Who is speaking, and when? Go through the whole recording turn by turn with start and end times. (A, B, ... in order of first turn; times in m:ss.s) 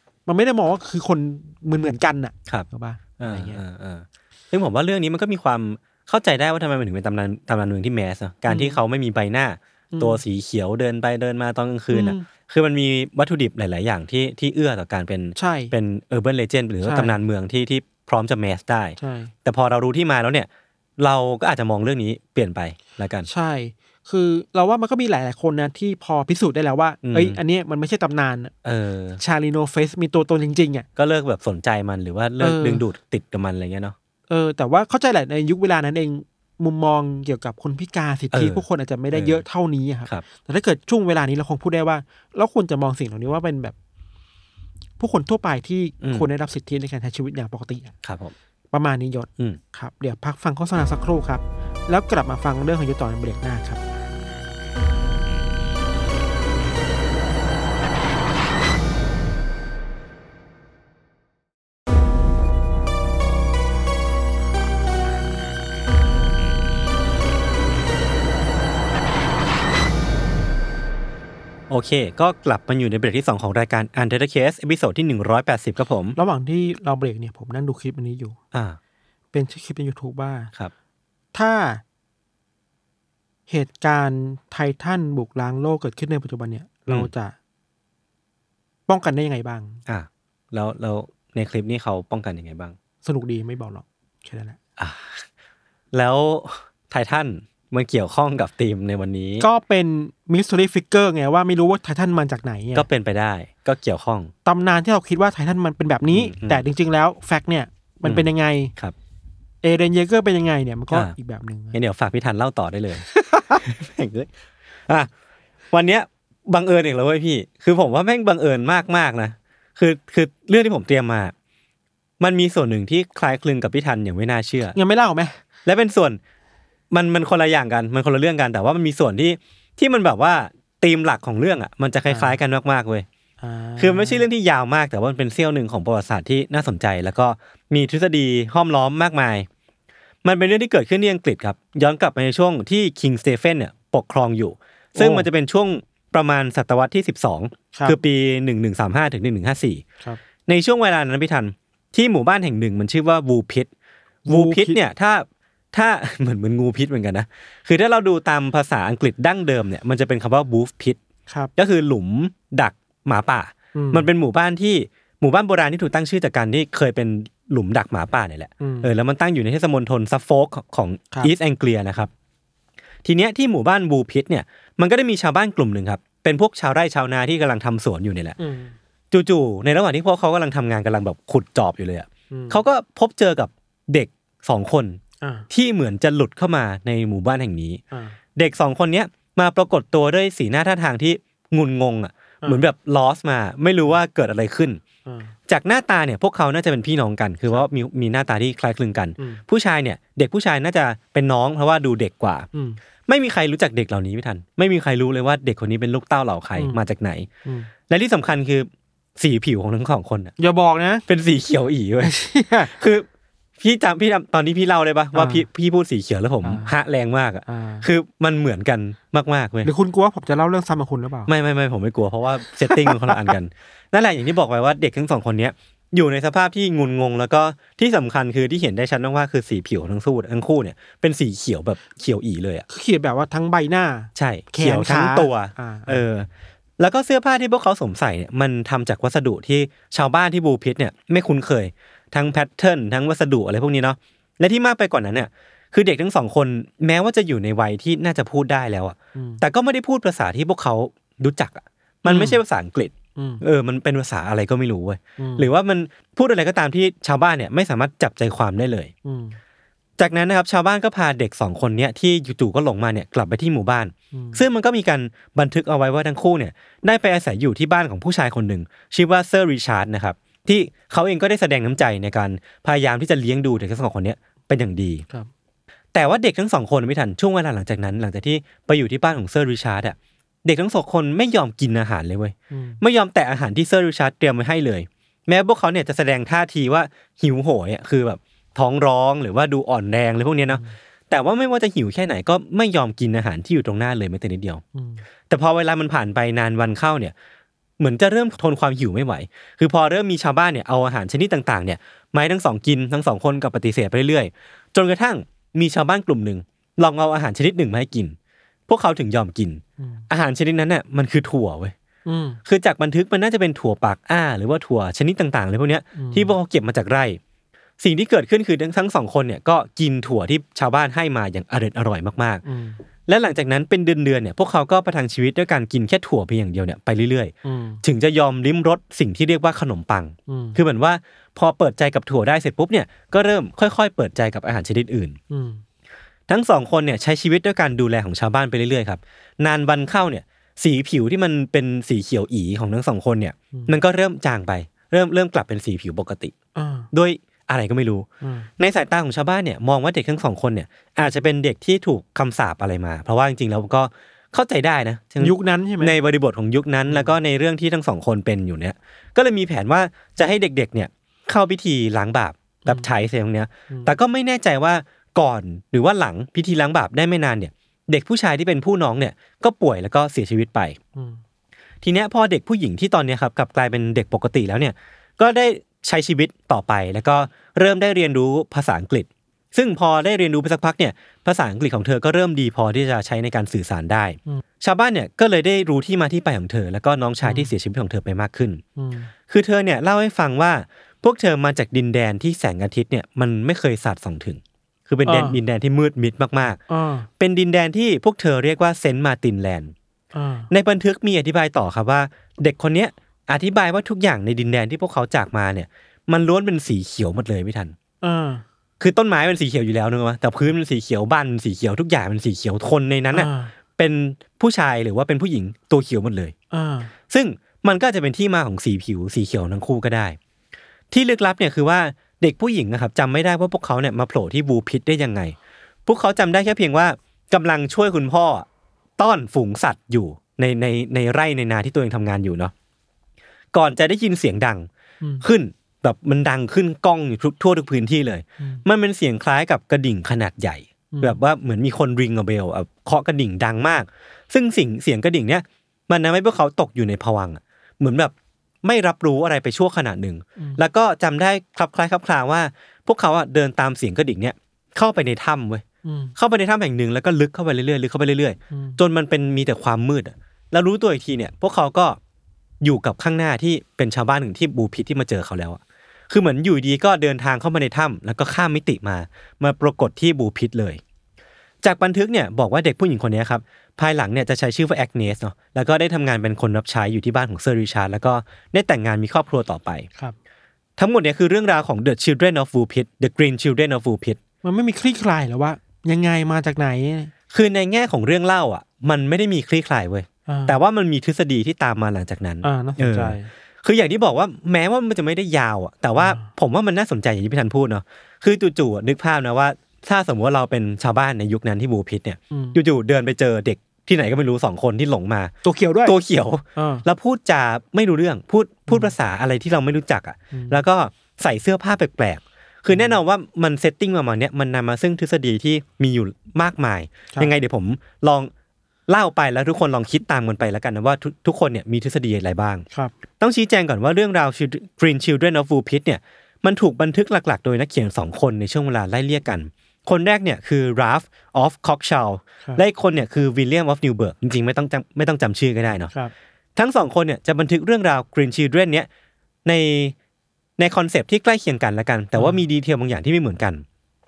0:00.2-0:03.6 A
0:03.2-0:23.3 B
0:08.5-0:08.8 A
0:09.9-0:10.2 A
0:11.9-0:12.2 A
0:15.4-0:15.7 A
0:16.8-0:17.1 A
0:19.0-0:19.3 A
0:23.2-0:28.5 A
0:27.0-0:27.4 B
0:28.6-0:29.2 B
0:29.2-0:30.8 A
0:31.0-0:34.0 B
0:32.4-0:32.8 A
0:34.3-0:43.7 A
0:38.3-0:39.4 B
0:45.0-0:47.9 A
0:46.0-0:46.3 B
0:48.0-0:48.3 B
0:48.7-0:53.8 A
1:11.7-1:16.2 B
1:16.2-1:18.4 A
1:18.5-1:18.8 B
1:19.3-1:20.5 A
1:21.3-1:21.8 A
1:23.5-1:27.3 A
1:28.9-1:29.8 A
1:29.8-1:32.8 B
1:33.0-1:34.6 A
1:34.8-1:35.2 B
1:35.9-1:39.4 B
1:39.4-1:42.9 A
1:42.7-1:44.3 B
1:44.4-1:48.7 A
1:46.1-1:46.6 B
1:48.0-1:48.9 B
1:49.6-1:51.8 A
1:51.7-1:53.1 B
1:53.0-1:53.6 A
1:53.6-1:54.3 B
1:55.7-2:01.3 B
2:02.2-2:04.8 B
2:04.7-2:05.4 A
2:05.6-2:06.2 B
2:06.9-2:13.0 B
2:12.1-2:12.4 A
2:13.4-2:14.2 A
2:13.8-2:19.5 B
2:20.2-2:29.8 B
2:25.0-2:25.3 A
2:27.7-2:28.0 A
2:30.5-2:33.7 B
2:34.2-2:34.8 A
2:34.3-2:41.0 B
2:41.6-2:52.1 B
2:43.7-2:44.1 A
2:48.6-2:48.9 A
2:53.0-2:58.4 B
2:58.4-2:58.7 A
2:59.1-3:05.0 B
3:02.3-3:02.6 A
3:05.2-3:05.5 A
3:05.5-3:07.8 B
3:07.9-3:08.2 A
3:08.4-3:14.8 B
3:15.0-3:15.3 A
3:15.5-3:22.5 B
3:22.5-3:22.8 A
3:23.1-3:27.3 B
3:26.6-3:26.8 A
3:27.4-3:27.7 A
3:27.9-3:30.3 B
3:30.4-3:31.0 A
3:31.1-3:33.1 B
3:32.0-3:32.7 A
3:33.6-3:39.7 B
3:35.1-3:35.4 A
3:36.4-3:36.7 A
3:37.4-3:37.9 A
3:39.6-3:41.3 A
3:41.3-3:52.6 B
3:42.6-3:43.3 A
3:52.7-3:56.0 A
3:54.1-4:18.9 B
4:09.1-4:09.4 A
4:12.0-4:12.4 A
4:13.2-4:13.4 A
4:15.2-4:15.5 A
4:19.0-4:19.4 A
4:20.0-4:35.0 B
4:24.1-4:24.4 A
4:35.9-4:54.6 B
4:42.5-4:42.8 A
4:50.5-4:50.8 A
4:54.7-4:55.0 A
4:55.3-4:57.1 B
4:57.8-5:08.2 B
5:08.7-5:11.7 B
5:09.8-5:10.0 A
5:12.0-5:12.4 A
5:12.4-5:17.2 B
5:15.9-5:16.3 A
5:17.8-5:22.4 B
5:22.4-5:22.8 A
5:23.1-5:35.2 B
5:27.4-5:27.8 A
5:30.3-5:30.6 A
5:35.3-5:35.6 A
5:36.3-5:46.3 B
5:46.5-5:46.9 A
5:46.9-5:48.1 B
5:48.2-5:48.5 A
5:48.6-6:10.8 B
5:55.2-5:55.9 A
5:56.9-5:57.1 A
6:03.7-6:03.9 A
6:11.8-6:28.6 B
6:27.2-6:27.5 A
6:28.8-6:29.1 A
6:29.3-6:36.6 B
6:35.0-6:35.4 A
6:36.7-6:37.1 A
6:37.2-6:39.7 B
6:40.1-6:40.5 A
6:40.5-6:47.7 B
6:48.0-6:48.4 A
6:48.8-6:56.3 B
6:53.1-6:53.5 A
6:56.5-6:56.9 A
6:57.1-7:00.2 B
7:00.9-7:05.3 B
7:05.8-7:08.4 B
7:09.0-7:12.5 B
7:13.5-7:14.7 B
7:15.2-7:35.6 B
7:20.9-7:21.2 A
7:35.8-7:36.1 A
7:36.2-7:42.0 B
7:38.5-7:38.8 A
7:42.6-7:50.8 B
7:51.6-7:59.9 B
8:00.8-8:04.2 B
8:04.4-8:07.1 A
8:07.3-8:38.3 B
8:10.3-8:10.6 A
8:12.4-8:13.3 A
8:16.0-8:16.3 A
8:22.3-8:22.6 A
8:25.4-8:26.0 A
8:26.6-8:26.8 A
8:28.7-8:28.9 A
8:30.3-8:30.6 A
8:32.7-8:33.0 A
8:38.9-8:42.6 B
8:43.2-8:55.9 B
8:56.6-8:58.9 B
8:59.4-8:59.9 B
9:00.6-9:03.6 B
9:02.2-9:02.4 A